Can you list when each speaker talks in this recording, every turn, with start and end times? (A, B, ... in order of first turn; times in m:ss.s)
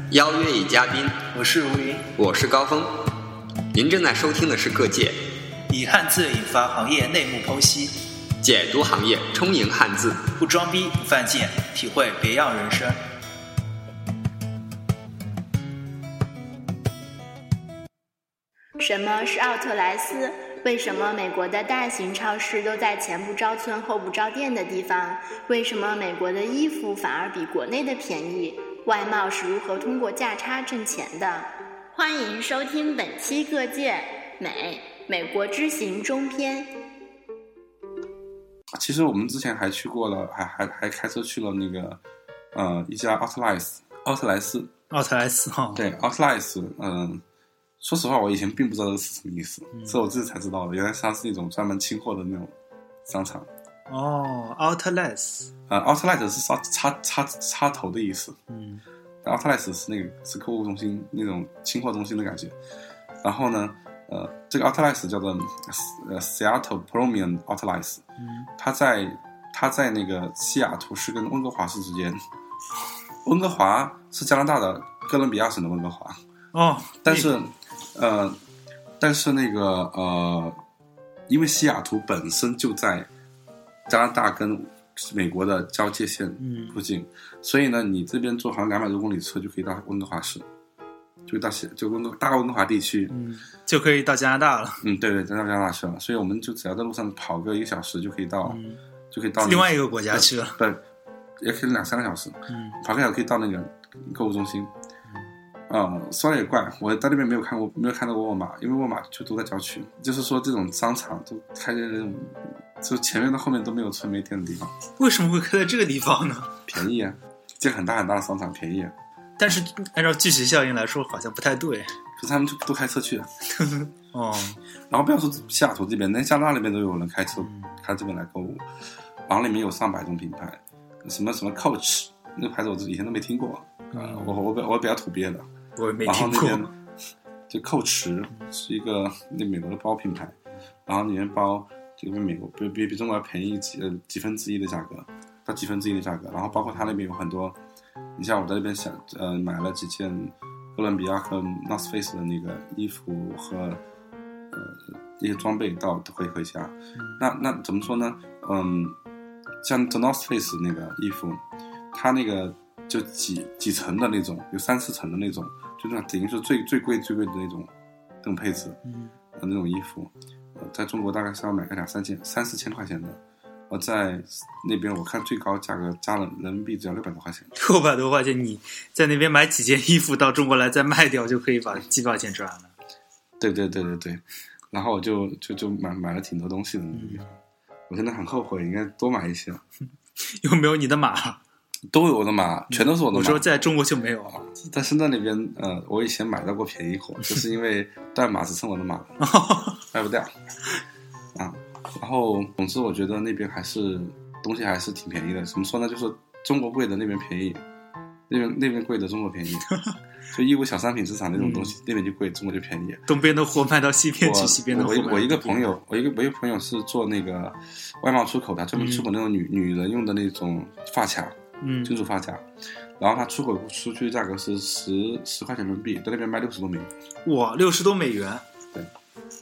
0:00.1-0:01.2 A
0:01.3-0:02.1 B
0:02.2-0:02.9 A
0:03.7-0:05.2 A
0:05.7-0:07.9 B
0:08.4-0:10.2 A
0:10.4-0:13.0 B
0:18.8-0:36.7 C
0:38.7-0:42.0 D
0:42.5-0:44.7 D
0:44.9-0:45.8 B
0:45.8-0:47.2 D
0:47.8-0:52.5 D
0:49.7-0:50.0 B
0:53.1-0:53.5 D
0:53.9-0:55.5 B
0:55.7-0:58.4 D
0:58.5-0:58.8 B
0:59.2-1:02.6 D
1:03.2-1:08.0 D
1:08.2-1:08.5 B
1:08.6-1:12.2 D
1:13.2-1:16.2 D
1:16.5-1:17.3 B
1:17.0-1:18.4 D
1:19.0-1:20.6 D
1:21.3-1:23.1 D
1:23.9-1:30.5 D
1:26.4-1:26.8 B
1:31.3-1:33.1 D
1:33.1-1:34.8 B
1:34.8-1:38.6 D
1:38.4-1:38.8 B
1:39.1-1:40.8 D
1:39.4-1:40.6 B
1:41.4-1:44.7 D
1:42.5-1:42.8 B
1:45.7-1:54.8 D
1:55.0-1:56.6 B
1:56.7-1:59.0 D
1:59.4-2:02.0 B
2:02.2-2:03.3 D
2:03.6-2:04.6 B
2:04.9-2:08.7 D
2:07.4-2:07.7 B
2:09.3-2:15.5 D
2:13.9-2:14.3 B
2:15.8-2:16.7 B
2:16.0-2:16.7 D
2:17.5-2:27.6 D
2:28.2-2:33.8 D
2:34.5-2:39.0 D
2:37.0-2:37.2 B
2:39.6-2:47.7 D
2:48.2-2:48.8 D
2:48.8-2:49.1 B
2:49.3-2:53.2 D
2:53.7-2:57.5 D
2:57.6-3:02.7 B
3:03.4-3:07.2 D
3:06.9-3:07.3 B
3:07.9-3:09.6 D
3:10.3-3:11.4 B
3:11.9-3:13.5 D
3:12.7-3:14.4 B
3:14.4-3:19.1 D
3:19.2-3:19.8 B
3:19.9-3:20.3 D
3:21.4-3:27.6 D
3:28.3-3:29.7 D
3:30.3-3:33.1 D
3:31.4-3:31.7 B
3:33.1-3:35.7 B
3:34.2-3:42.4 D
3:38.8-3:39.1 B
3:41.6-3:41.9 B
3:43.0-3:46.9 D
3:47.2-3:48.4 B